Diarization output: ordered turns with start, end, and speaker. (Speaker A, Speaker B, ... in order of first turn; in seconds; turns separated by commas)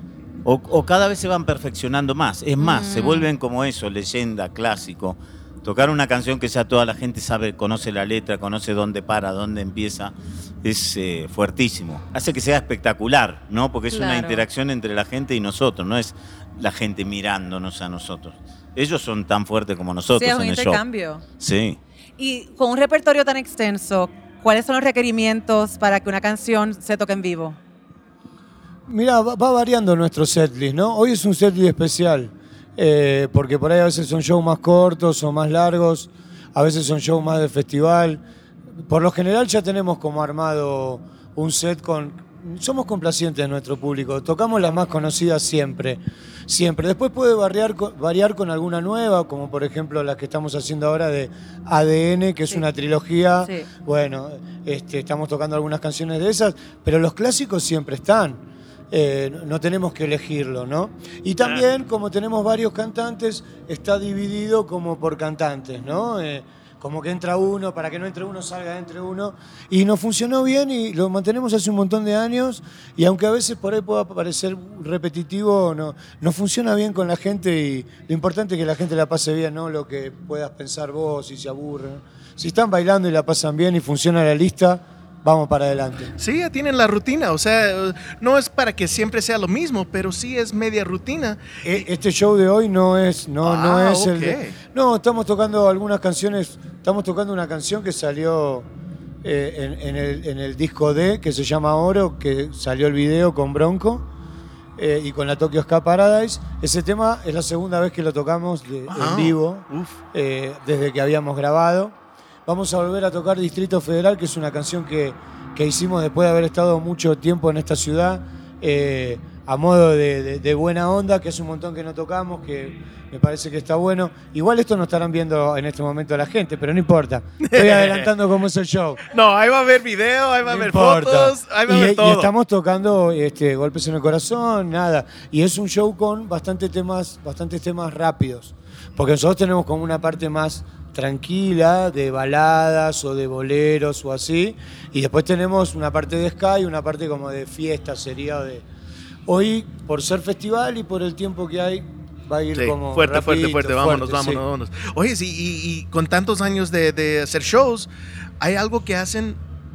Speaker A: 0.5-20.8, Speaker B: 2.6-3.3, Speaker B: 13.9-14.4, Speaker B: 20.2-21.2, Speaker A: 21.4-21.8, Speaker B: 22.2-27.6, Speaker C: 28.9-38.2, Speaker C: 38.8-86.1, Speaker D: 86.2-91.8, Speaker C: 91.6-98.7, Speaker D: 93.4-94.6, Speaker C: 99.2-104.0, Speaker C: 104.8-112.0, Speaker D: 108.9-110.0, Speaker C: 112.5-129.0, Speaker D: 127.5-128.1, Speaker D: 129.1-132.3, Speaker C: 130.4-148.7, Speaker C: 149.3-154.4, Speaker D: 152.6-157.9, Speaker D: 158.4-159.4